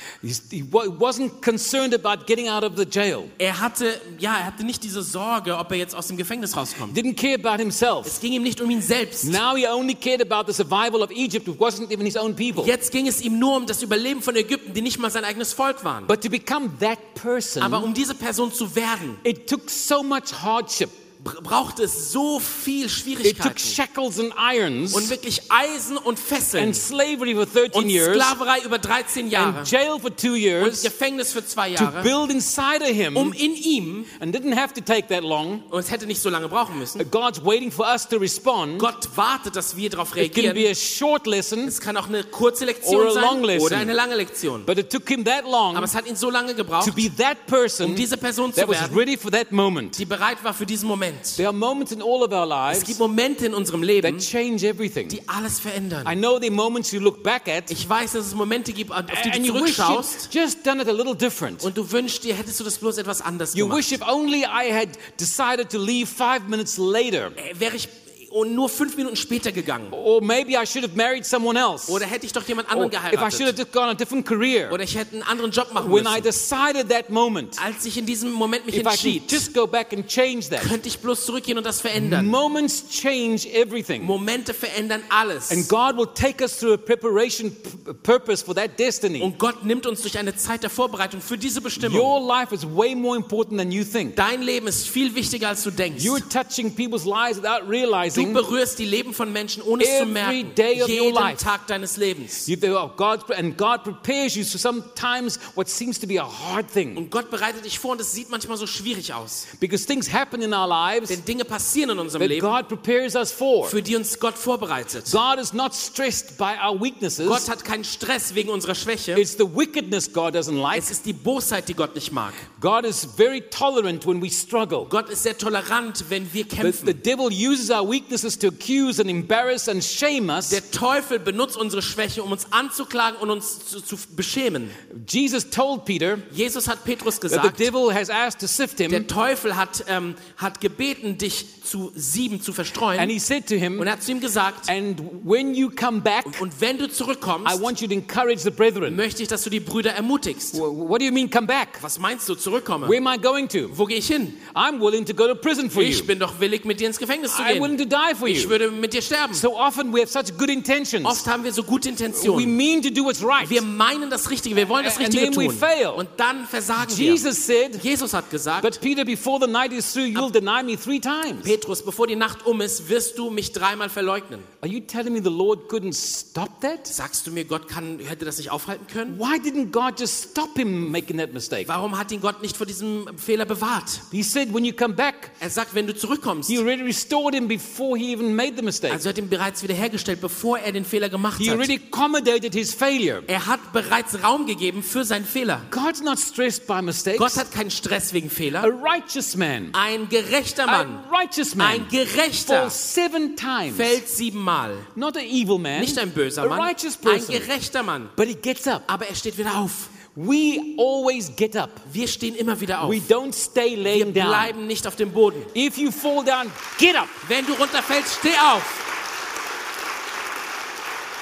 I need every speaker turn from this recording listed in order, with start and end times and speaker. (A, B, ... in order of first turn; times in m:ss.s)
0:00.2-0:03.3 A
0:03.4-0:07.0 B
0:06.9-0:08.2 A
0:08.0-0:09.4 B
0:09.2-0:12.7 A
0:12.5-0:16.1 B
0:16.1-0:17.9 A
0:17.6-0:19.2 B
0:19.2-0:20.9 A
0:21.2-0:23.8 B
0:23.2-0:25.1 A
0:24.9-0:26.9 B
0:26.6-0:28.3 A
0:27.7-0:29.7 B
0:29.3-0:30.9 A
0:30.6-0:32.1 B
0:31.8-0:33.4 A
0:33.1-0:34.1 B
0:34.2-0:35.6 A
0:35.7-0:37.0 B
0:37.0-0:38.9 A
0:38.8-0:40.7 B
0:40.2-0:41.7 A
0:41.6-0:44.7 B
0:42.8-0:43.9 A
0:44.6-0:45.9 A
0:45.7-0:47.1 B
0:46.8-0:50.0 A
0:47.8-0:49.0 B
0:50.0-0:51.4 B
0:51.4-0:53.0 A
0:52.7-0:54.3 B
0:54.0-0:55.2 A
0:55.1-0:56.2 B
0:56.0-0:57.7 A
0:57.7-1:00.3 B
0:59.1-1:01.7 A
1:01.6-1:04.0 B
1:03.5-1:07.4 A
1:07.4-1:10.0 B
1:09.9-1:12.0 A
1:11.9-1:13.6 B
1:12.7-1:14.8 A
1:14.7-1:16.3 B
1:15.8-1:17.6 A
1:17.6-1:19.5 B
1:18.7-1:20.7 A
1:20.6-1:22.3 B
1:21.9-1:24.1 A
1:24.0-1:25.7 B
1:25.5-1:29.3 A
1:29.2-1:32.1 B
1:31.8-1:34.2 A
1:34.1-1:36.2 B
1:36.0-1:38.4 A
1:38.1-1:42.5 B
1:39.8-1:41.4 A
1:42.4-1:47.0 A
1:46.9-1:49.5 B
1:49.6-1:51.2 A
1:51.1-1:52.5 B
1:52.2-1:53.8 A
1:53.6-1:55.2 B
1:55.0-1:57.4 A
1:57.2-1:59.2 B
1:59.1-2:00.9 A
2:00.7-2:02.4 B
2:02.6-2:04.9 A
2:04.8-2:07.0 B
2:06.6-2:10.6 A
2:10.4-2:14.8 B
2:14.9-2:16.3 A
2:16.3-2:17.7 B
2:17.3-2:19.1 A
2:18.9-2:23.1 B
2:23.0-2:23.9 A
2:23.8-2:24.7 B
2:24.6-2:26.4 A
2:26.3-2:27.7 B
2:27.4-2:29.0 A
2:28.8-2:30.6 B
2:30.5-2:31.8 A
2:31.8-2:33.0 B
2:32.8-2:33.8 A
2:33.7-2:34.4 B
2:34.4-2:36.1 A
2:35.7-2:37.7 B
2:37.3-2:38.5 A
2:38.2-2:39.4 B
2:39.3-2:41.2 A
2:41.0-2:42.6 B
2:42.1-2:43.6 A
2:43.4-2:47.2 B
2:44.8-2:46.0 A
2:46.8-2:47.8 A
2:47.7-2:48.8 B
2:48.6-2:51.5 A
2:51.4-2:54.5 B
2:54.6-2:56.9 A
2:56.9-2:59.2 B
2:59.1-3:01.7 A
3:01.6-3:04.0 B
3:04.1-3:05.3 A
3:05.4-3:06.6 B
3:06.5-3:09.0 A
3:08.9-3:11.7 B
3:11.4-3:13.3 A
3:13.3-3:15.7 B
3:15.7-3:17.4 A
3:17.2-3:18.7 B
3:18.6-3:19.7 A
3:19.7-3:21.0 B
3:20.6-3:24.0 A
3:21.6-3:22.8 B
3:23.7-3:24.9 B
3:24.9-3:27.5 A
3:25.7-3:28.1 B
3:28.2-3:28.8 A
3:28.9-3:29.9 B
3:30.1-3:31.8 A
3:31.8-3:33.1 B
3:32.8-3:34.5 A
3:33.8-3:35.5 B
3:35.5-3:37.2 A
3:37.2-3:38.9 B